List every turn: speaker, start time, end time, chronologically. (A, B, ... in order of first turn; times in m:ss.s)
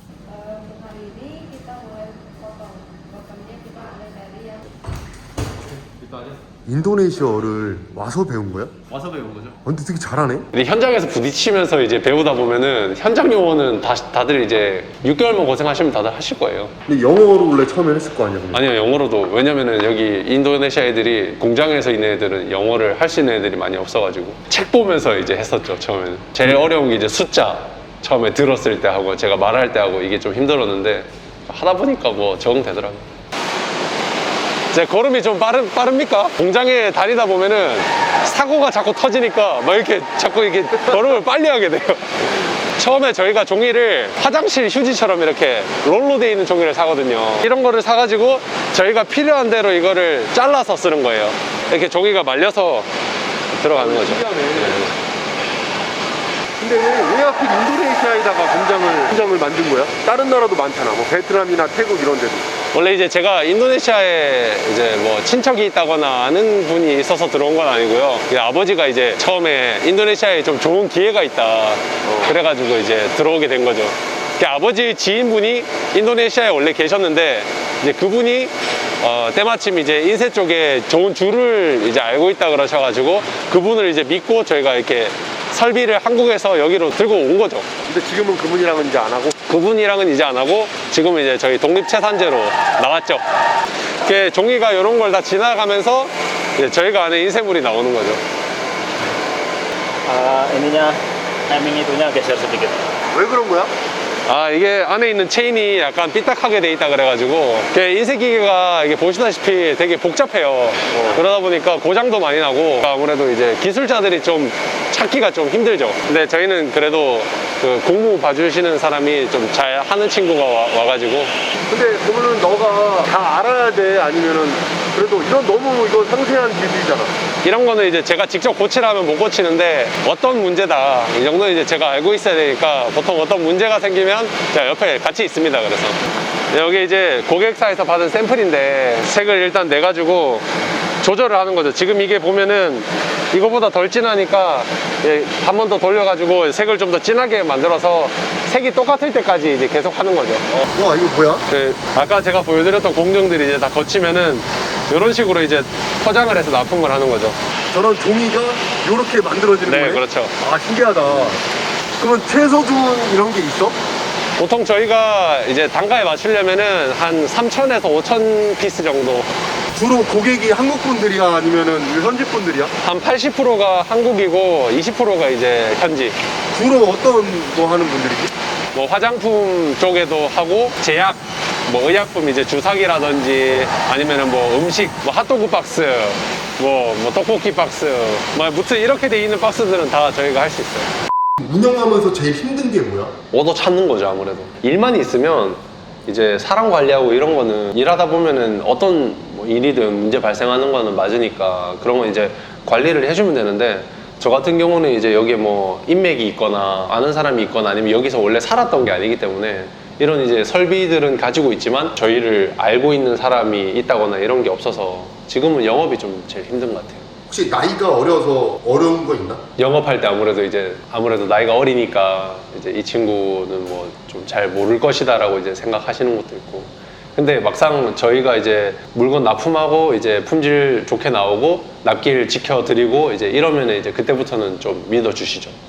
0:00.2-0:04.6 A
0:05.7-0:06.4 B
0:06.6-0:08.7 C
0:08.9-0:09.6 B
0:09.6-0:10.5 C
0:10.5-0:16.7 B
0:16.9-0:18.7 C
0:18.5-0:33.1 B
0:34.7-0:52.9 B
0:53.5-0:54.9 B
0:53.7-0:54.9 C
0:56.6-1:02.5 C
1:02.7-1:27.7 B
1:12.0-1:12.3 C
1:27.8-1:29.4 C
1:29.4-1:33.2 B
1:34.0-1:38.2 B
1:40.1-1:41.0 D
1:41.5-1:42.8 D
1:43.1-1:43.7 C
1:44.2-2:01.3 B
1:50.9-1:51.2 C
2:01.7-2:07.1 C
2:07.4-2:16.0 B
2:16.5-2:20.4 B
2:21.0-2:30.6 B
2:30.5-2:31.4 C
2:31.5-2:37.4 B
2:37.7-2:41.4 C
2:39.6-2:40.3 B
2:42.0-2:43.8 C
2:44.4-2:49.3 B
2:49.7-2:52.7 C
2:52.8-2:56.2 B
2:56.5-2:58.3 C
2:58.7-3:10.9 B
3:11.4-3:13.1 C
3:13.3-3:37.0 B
3:37.3-3:39.4 C
3:39.6-3:55.6 B